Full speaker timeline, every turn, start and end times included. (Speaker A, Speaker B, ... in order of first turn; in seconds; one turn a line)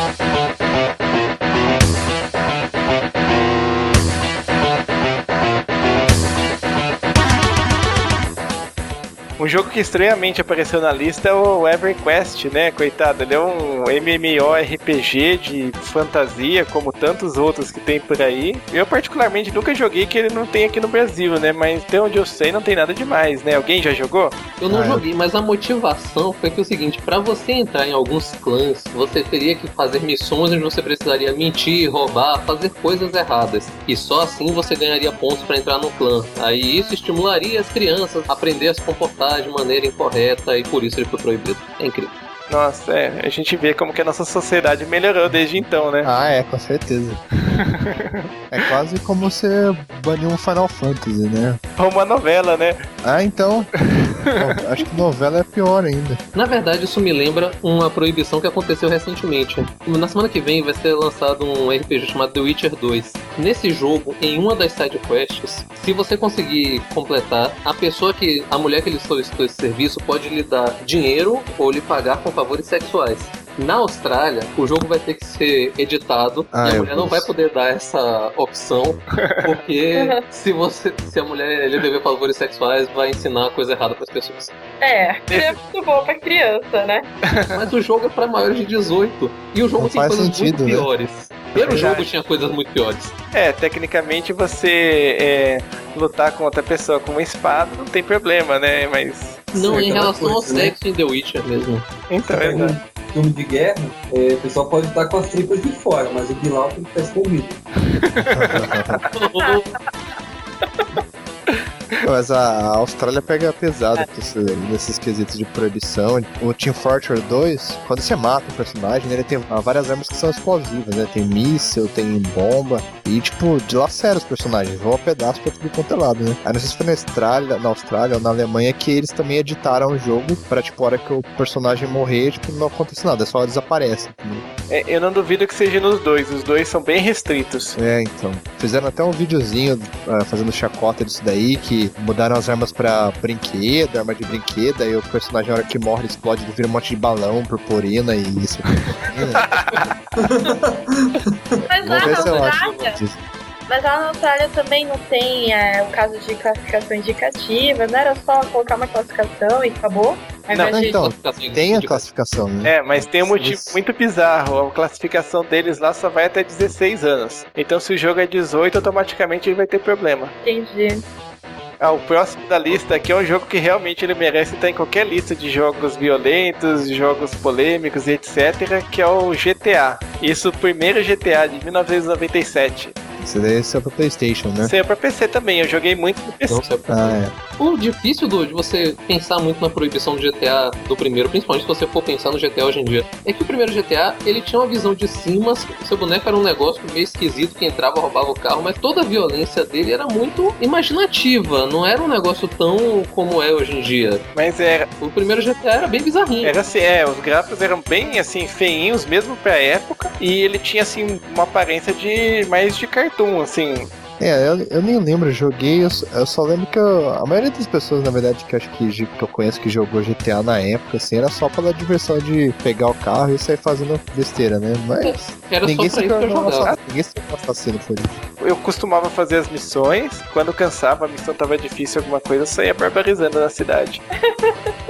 Speaker A: 9.4-24.4
Speaker B: 24.6-42.1
Speaker C: 24.7-25.0
Speaker A: 42.5-46.1
Speaker C: 45.3-47.2
Speaker A: 47.5-48.7
Speaker C: 48.5-51.6
Speaker A: 51.8-52.8
Speaker C: 53.0-53.7
Speaker A: 54.0-54.3
Speaker C: 54.3-56.2
Speaker B: 56.3-84.5
Speaker C: 76.5-77.3
Speaker D: 79.9-80.2
Speaker D: 84.8-87.1
Speaker A: 85.3-85.5
Speaker B: 87.5-93.1
Speaker C: 89.8-90.9
Speaker C: 91.5-92.0
Speaker A: 91.8-92.0
Speaker A: 93.3-99.5
Speaker E: 99.5-100.7
Speaker B: 99.5-101.9
Speaker A: 102.1-102.7
Speaker E: 102.3-107.6
Speaker A: 108.0-108.7
Speaker C: 108.3-109.0
Speaker B: 109.1-109.6
Speaker D: 109.2-109.8
Speaker D: 110.6-111.0
Speaker A: 111.5-112.0
Speaker C: 112.0-134.4
Speaker A: 134.7-137.8
Speaker C: 137.8-149.4
Speaker A: 149.4-149.8
Speaker E: 150.2-151.2
Speaker D: 151.7-153.0
Speaker C: 151.8-153.2
Speaker B: 151.9-152.8
Speaker D: 153.7-161.1
Speaker C: 160.7-163.8
Speaker B: 160.9-162.0
Speaker A: 162.6-170.3
Speaker D: 170.4-171.0
Speaker A: 171.8-182.9
Speaker C: 183.2-184.7
Speaker A: 184.6-186.6
Speaker B: 186.5-204.2
Speaker C: 186.9-187.3
Speaker A: 204.3-204.9
Speaker B: 205.0-206.5
Speaker A: 206.4-213.9
Speaker C: 214.2-228.2
Speaker B: 225.0-226.7
Speaker A: 228.4-234.0
Speaker D: 234.3-234.7